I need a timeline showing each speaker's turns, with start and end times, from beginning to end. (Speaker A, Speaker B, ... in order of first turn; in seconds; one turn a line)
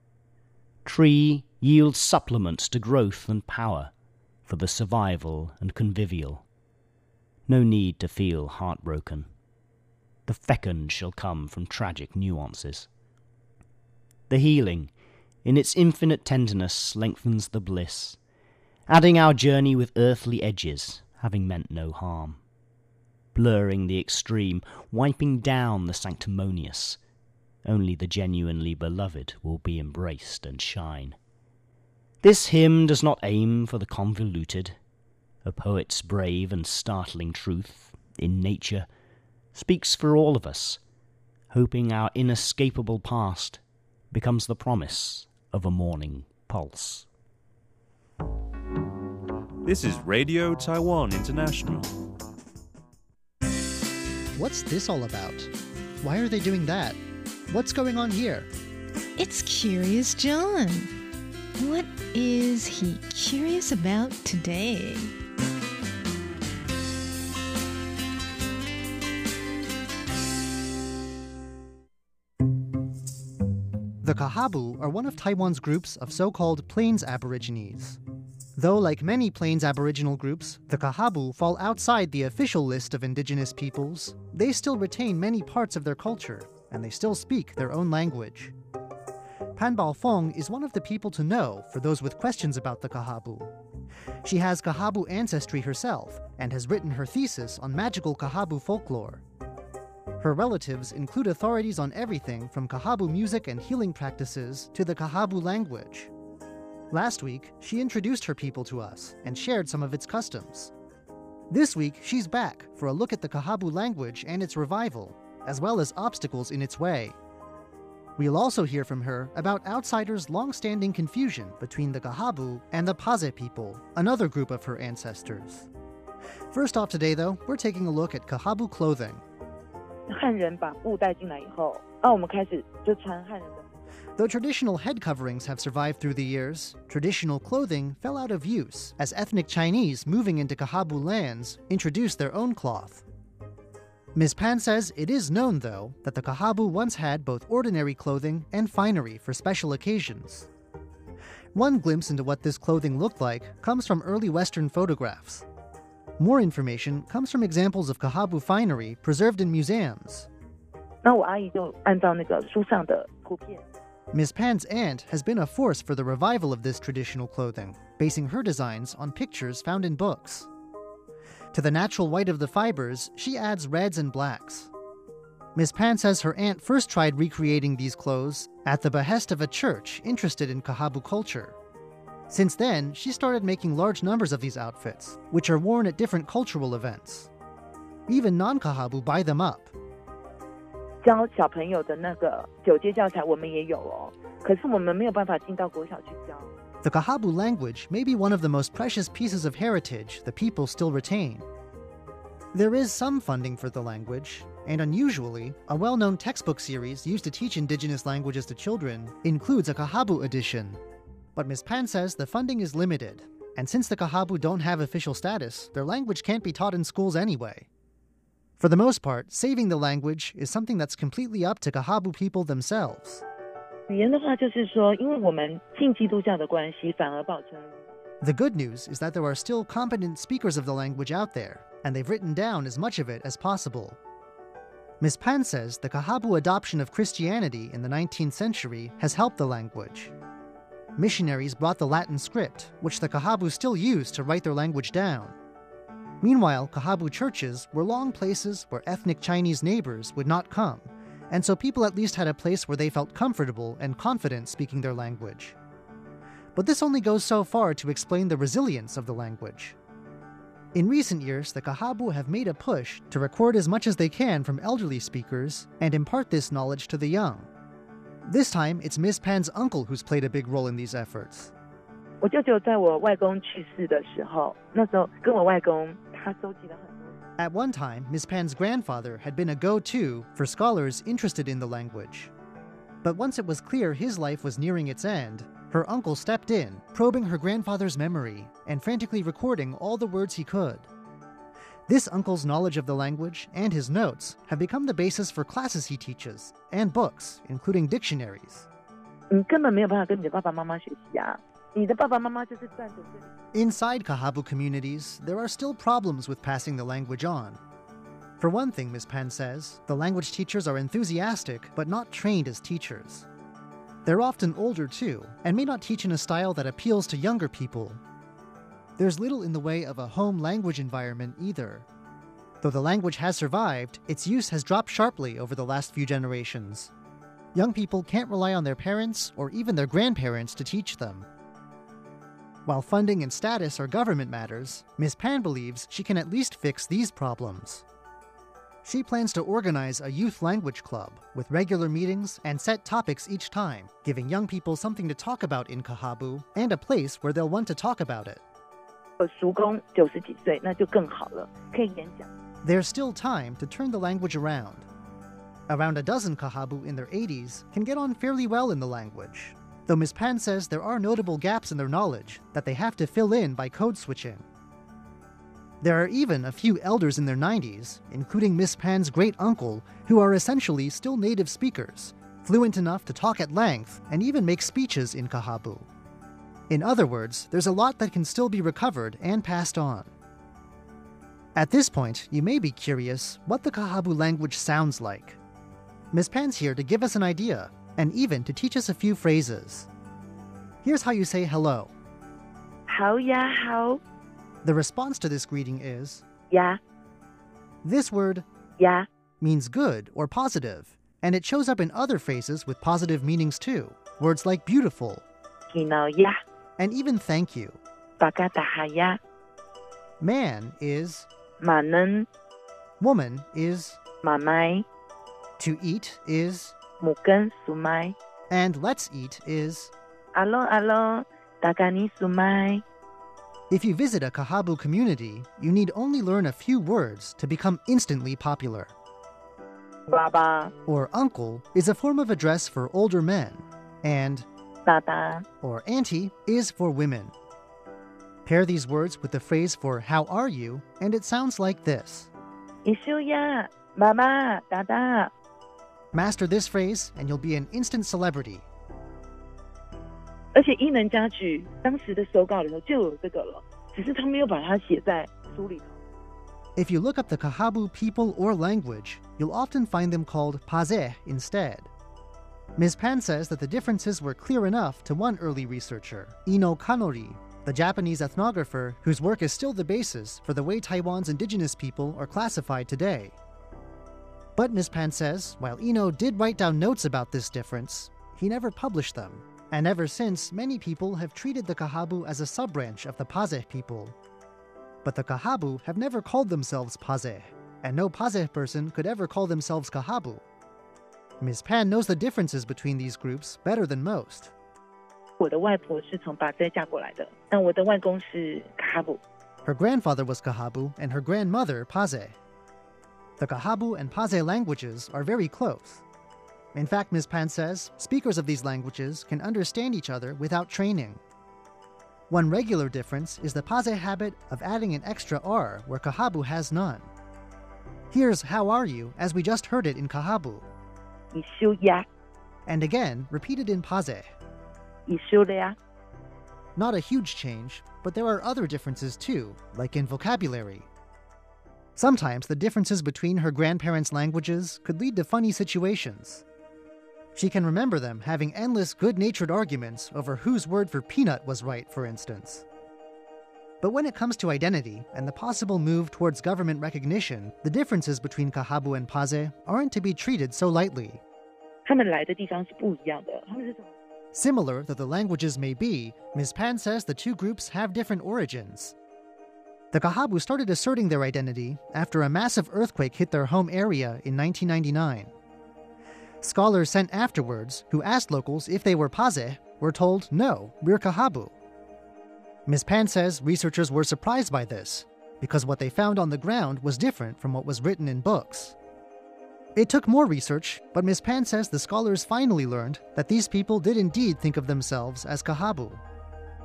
Speaker A: 0.8-3.9
Speaker A: 4.5-6.4
Speaker A: 7.5-9.3
Speaker A: 10.3-12.9
Speaker A: 14.3-18.2
Speaker A: 18.9-22.4
Speaker A: 23.3-27.0
Speaker A: 27.6-31.2
Speaker A: 32.2-34.8
Speaker A: 35.4-38.9
Speaker A: 39.5-40.8
Speaker A: 41.5-47.1
Speaker B: 49.6-51.9
Speaker C: 54.4-58.5
Speaker D: 59.1-60.9
Speaker D: 61.6-65.1
Speaker C: 74.0-78.0
Speaker C: 78.6-88.5
Speaker C: 89.5-93.5
Speaker C: 94.2-99.2
Speaker C: 100.2-106.1
Speaker C: 106.9-110.7
Speaker C: 111.5-117.2
Speaker C: 118.2-125.7
Speaker C: 126.5-129.2
Speaker E: 130.1-133.7
Speaker C: 134.2-143.0
Speaker C: 144.1-150.5
Speaker C: 151.5-155.4
Speaker C: 156.2-160.3
Speaker E: 161.0-163.6
Speaker C: 164.1-170.5
Speaker C: 171.5-174.7
Speaker C: 175.5-181.6
Speaker C: 182.3-187.3
Speaker C: 188.1-189.7
Speaker E: 191.0-196.5
Speaker C: 196.8-201.4
Speaker C: 202.5-210.8
Speaker C: 211.3-217.7
Speaker C: 218.6-223.2
Speaker E: 223.9-227.9
Speaker C: 228.2-234.0
Speaker C: 235.0-240.1
Speaker C: 241.0-245.3
Speaker C: 246.2-255.5
Speaker C: 256.5-259.8
Speaker C: 260.7-267.5
Speaker C: 268.2-271.5
Speaker E: 272.2-277.2
Speaker C: 277.4-282.3
Speaker C: 283.0-290.9
Speaker C: 291.9-298.7
Speaker E: 299.3-303.3
Speaker C: 303.5-307.6
Speaker C: 308.4-313.2
Speaker C: 314.1-318.0
Speaker C: 319.0-321.9
Speaker C: 322.6-326.9
Speaker C: 327.5-331.3
Speaker C: 332.6-337.8
Speaker C: 338.8-348.4
Speaker E: 349.2-352.3
Speaker C: 352.6-354.9
Speaker C: 355.7-364.4
Speaker C: 365.8-375.9
Speaker C: 376.7-380.1
Speaker C: 381.5-385.4
Speaker C: 386.1-389.9
Speaker C: 390.8-391.9
Speaker E: 392.9-394.0
Speaker C: 394.6-396.2
Speaker E: 396.5-396.8
Speaker C: 397.8-398.4
Speaker E: 398.8-399.0
Speaker C: 399.4-405.2
Speaker E: 405.7-406.4
Speaker C: 406.8-407.8
Speaker E: 408.2-409.2
Speaker C: 410.2-411.3
Speaker E: 411.6-412.3
Speaker C: 413.0-414.0
Speaker E: 414.2-414.9
Speaker C: 415.6-416.7
Speaker E: 417.0-418.1
Speaker C: 418.5-419.9
Speaker E: 420.3-422.8
Speaker C: 423.7-428.9
Speaker E: 430.1-430.7
Speaker C: 430.9-434.4
Speaker E: 434.8-435.4
Speaker C: 435.6-437.3
Speaker C: 438.4-442.3
Speaker E: 442.8-445.3
Speaker C: 446.1-448.6
Speaker E: 450.5-455.9
Speaker C: 456.8-461.9
Speaker C: 462.8-473.3
Speaker C: 474.6-484.1
Speaker C: 485.0-490.4
Speaker C: 491.4-494.5
Speaker E: 495.4-499.2
Speaker C: 499.6-502.4
Speaker C: 503.4-506.0
Speaker C: 506.7-511.2
Speaker C: 512.3-517.1
Speaker C: 518.1-520.6
Speaker E: 521.3-522.0
Speaker C: 522.6-524.3
Speaker E: 525.1-525.8
Speaker C: 526.8-530.9
Speaker C: 532.0-536.4
Speaker C: 537.3-542.6
Speaker C: 543.8-551.2
Speaker E: 551.9-553.9
Speaker C: 554.3-558.9
Speaker C: 559.9-565.3
Speaker C: 566.4-571.5
Speaker C: 572.6-578.7
Speaker C: 579.8-586.0